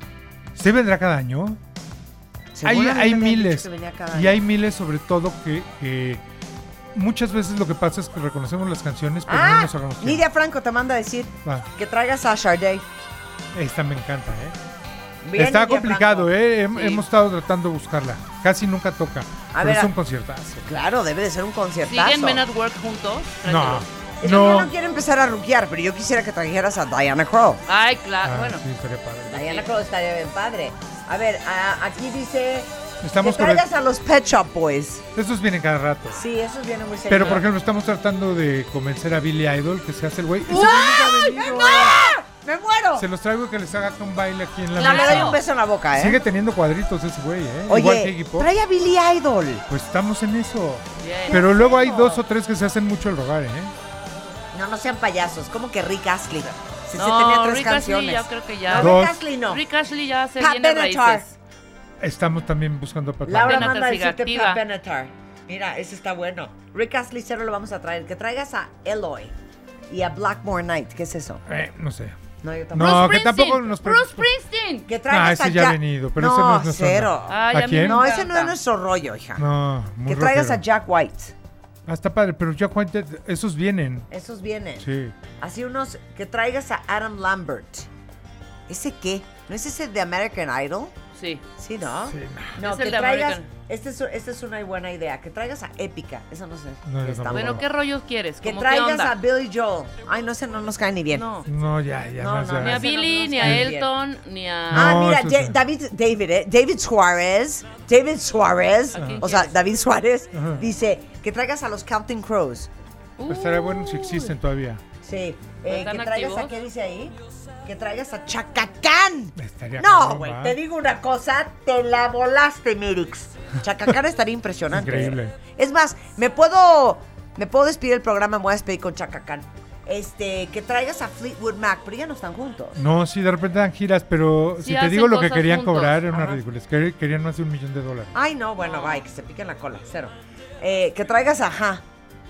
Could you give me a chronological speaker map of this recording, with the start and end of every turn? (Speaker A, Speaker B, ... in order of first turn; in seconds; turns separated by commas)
Speaker A: 0.5-1.6, Speaker B: 2.5-4.3, Speaker A: 2.6-6.2, Speaker A: 6.9-10.2, Speaker B: 9.2-12.8, Speaker A: 13.5-14.6, Speaker B: 15.2-16.3, Speaker A: 15.4-20.6, Speaker C: 16.7-17.0, Speaker B: 19.5-19.9, Speaker B: 20.6-22.4, Speaker C: 21.9-23.9, Speaker A: 23.4-24.7, Speaker B: 24.2-27.6, Speaker C: 27.7-28.6, Speaker A: 28.2-29.4, Speaker C: 29.3-29.7, Speaker B: 29.3-35.0, Speaker A: 33.0-33.7, Speaker A: 35.1-36.2, Speaker B: 36.1-37.4, Speaker A: 37.1-42.0, Speaker B: 40.5-43.1, Speaker C: 40.5-40.9, Speaker A: 43.0-45.4, Speaker C: 44.7-45.4, Speaker B: 44.8-46.2, Speaker A: 45.9-48.5, Speaker B: 47.7-49.6, Speaker A: 49.7-53.7, Speaker C: 51.0-51.4, Speaker B: 51.3-52.2, Speaker B: 54.5-59.6, Speaker C: 57.0-61.3, Speaker A: 58.7-59.2, Speaker B: 60.4-61.2, Speaker A: 62.0-63.8, Speaker B: 63.2-69.3, Speaker C: 63.3-64.6, Speaker B: 69.9-71.4, Speaker A: 71.5-72.2, Speaker B: 72.4-73.1, Speaker A: 72.7-74.3, Speaker C: 72.7-74.9, Speaker B: 74.9-79.5, Speaker A: 75.1-78.0, Speaker C: 77.3-78.5, Speaker A: 79.4-80.6, Speaker B: 80.0-81.3, Speaker A: 81.8-84.1, Speaker B: 84.1-84.8, Speaker A: 84.8-85.1, Speaker B: 85.4-87.9, Speaker B: 88.7-90.9, Speaker C: 91.1-91.4, Speaker B: 91.6-97.6, Speaker A: 92.0-92.6, Speaker C: 92.6-93.5, Speaker A: 96.8-97.6, Speaker C: 97.3-99.1, Speaker B: 98.4-101.2, Speaker C: 101.1-101.5, Speaker A: 101.5-102.8, Speaker B: 102.2-103.9, Speaker C: 102.6-104.9, Speaker A: 103.4-103.7, Speaker A: 104.7-105.6, Speaker B: 104.7-112.7, Speaker C: 108.9-109.6, Speaker A: 109.0-109.2, Speaker A: 110.3-110.6, Speaker C: 113.2-114.3, Speaker A: 113.3-114.8, Speaker B: 115.0-132.8, Speaker C: 115.7-116.5, Speaker A: 119.4-120.6, Speaker A: 124.7-125.3, Speaker A: 132.8-138.1, Speaker C: 134.6-136.1, Speaker B: 136.1-136.4, Speaker B: 138.1-141.8, Speaker C: 138.6-139.0